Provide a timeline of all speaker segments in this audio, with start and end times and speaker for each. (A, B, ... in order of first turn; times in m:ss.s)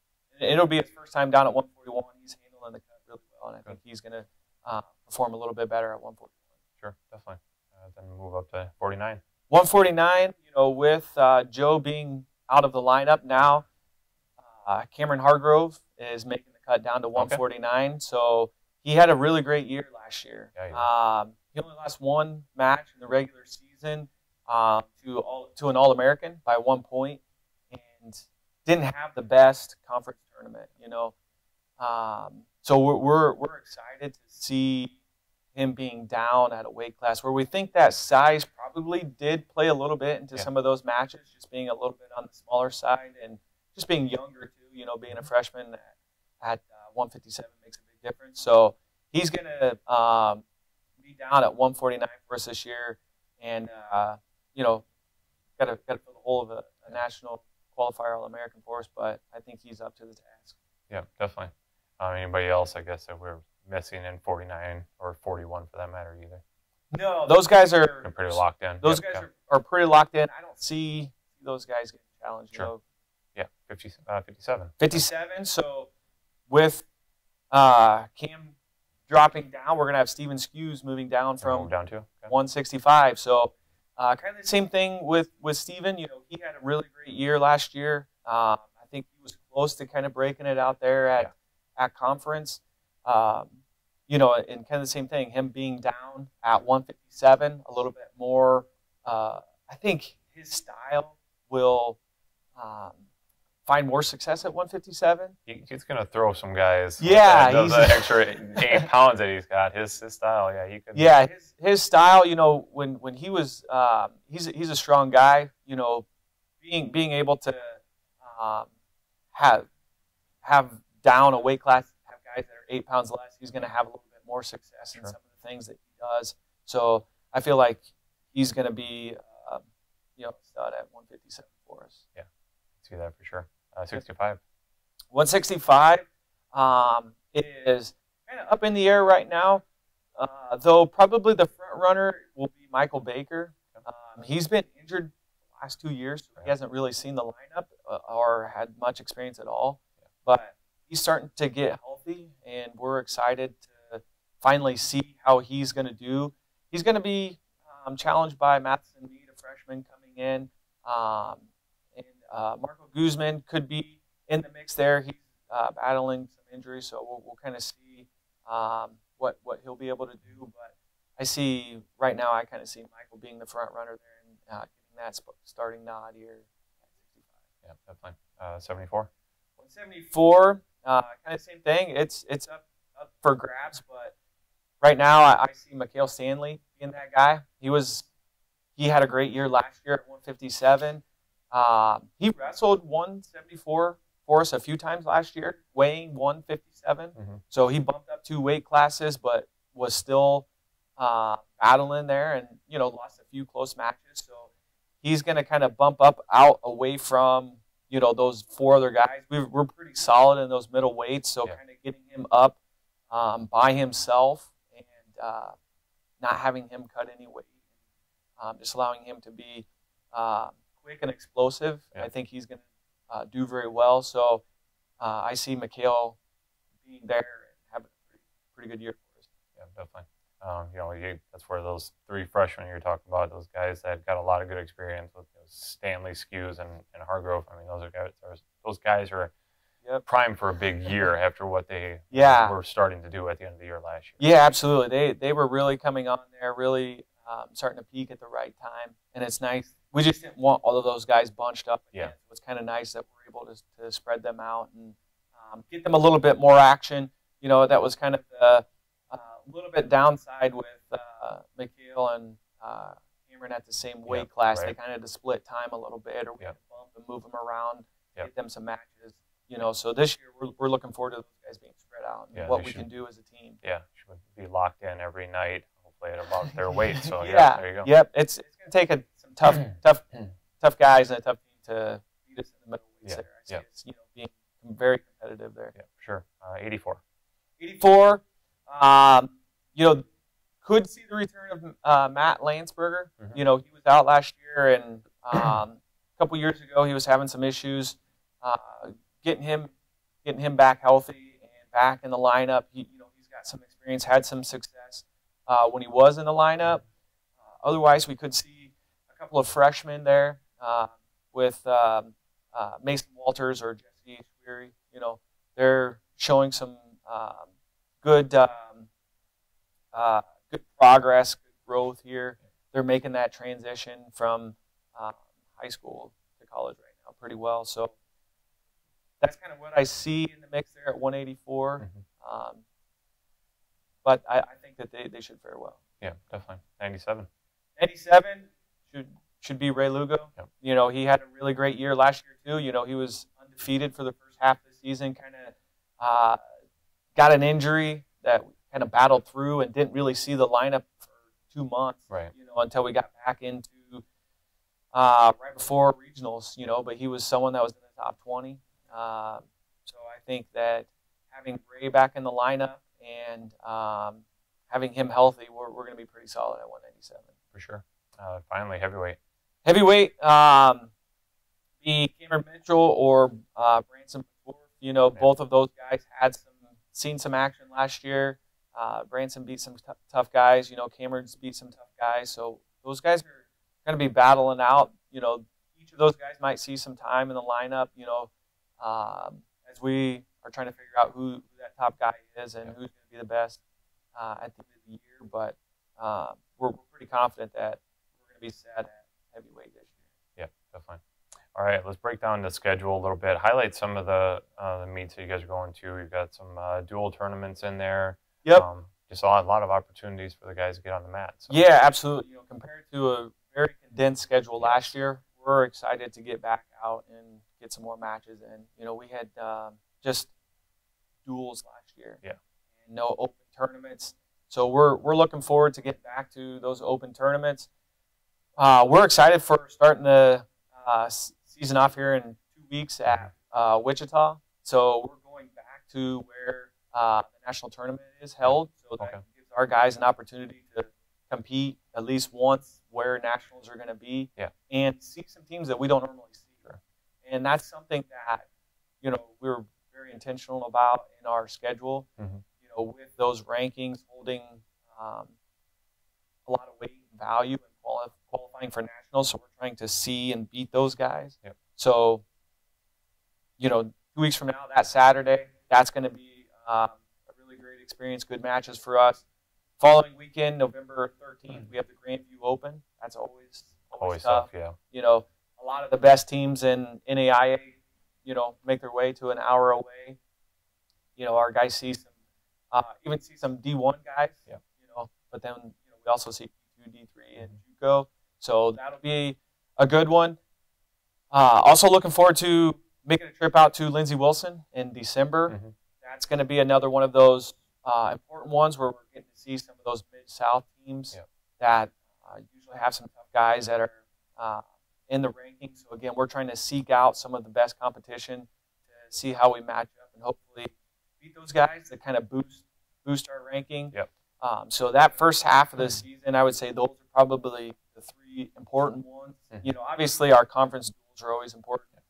0:00.3-0:06.3 A
0:06.8-0:09.2 B
0:09.5-0:13.6 A
0:14.4-0:27.2 A
0:17.2-0:17.4 B
0:20.6-0:20.9 B
0:27.7-0:31.1 A
0:31.8-0:35.0 A
0:35.6-0:50.4 A
0:51.0-0:54.8 A
0:55.6-1:00.6 A
1:00.9-1:06.4 B
1:06.9-1:12.8 A
1:08.0-1:09.2 B
1:13.4-1:15.0 B
1:14.8-1:15.9 A
1:16.5-1:16.8 A
1:17.5-1:18.6 A
1:19.1-1:21.7 A
1:21.4-1:22.3 B
1:22.3-1:42.0 A
1:42.6-1:43.0 A
1:43.7-1:45.4 A
1:45.5-1:51.1 B
1:47.0-1:48.8 A
1:51.0-1:56.0 A
1:56.6-1:58.7 A
1:59.3-1:59.7 A
2:00.4-2:09.6 A
2:10.2-2:12.0 A
2:12.8-2:14.4 B
2:15.1-2:19.6 A
2:20.2-2:57.3 A
2:57.6-2:59.1 B
2:59.6-3:04.1 A
3:04.8-3:08.1 A
3:08.8-3:20.5 A
3:21.0-3:24.5 A
3:25.0-3:32.6 A
3:33.1-3:35.6 A
3:36.2-3:37.5 A
3:38.4-3:44.4 A
3:45.0-3:46.2 A
3:46.8-3:49.3 A
3:49.6-3:59.3 B
4:00.0-4:04.2 B
4:02.1-4:02.6 A
4:04.2-4:33.6 A
4:24.1-4:24.7 B
4:32.3-4:32.9 B
4:33.6-4:37.9 B
4:36.9-4:45.8 A
4:43.0-4:43.6 B
4:45.8-4:47.0 B
4:47.6-4:50.0 A
4:50.6-4:59.7 A
5:00.2-5:06.8 A
5:07.6-5:17.5 A
5:18.0-5:18.9 A
5:19.9-5:28.0 A
5:29.2-5:32.6 A
5:34.0-5:35.8 A
5:36.0-5:37.3 B
5:37.8-5:46.5 A
5:47.2-5:54.0 A
5:54.9-6:07.3 A
6:07.5-6:09.2 B
6:09.6-6:10.9 A
6:11.8-6:33.6 A
6:34.2-6:40.0 A
6:40.4-6:41.0 B
6:41.5-6:51.6 B
6:51.5-7:00.3 A
6:54.6-6:54.9 B
7:01.2-7:02.2 A
7:02.8-7:07.7 A
7:08.6-7:26.7 A
7:18.4-7:19.2 B
7:27.2-7:28.5 A
7:29.0-7:32.1 A
7:32.6-7:35.3 A
7:36.5-7:42.2 A
7:43.6-7:49.2 A
7:49.8-8:00.2 A
7:54.0-7:54.8 B
8:01.2-8:02.1 A
8:02.7-8:10.4 A
8:11.3-8:41.9 A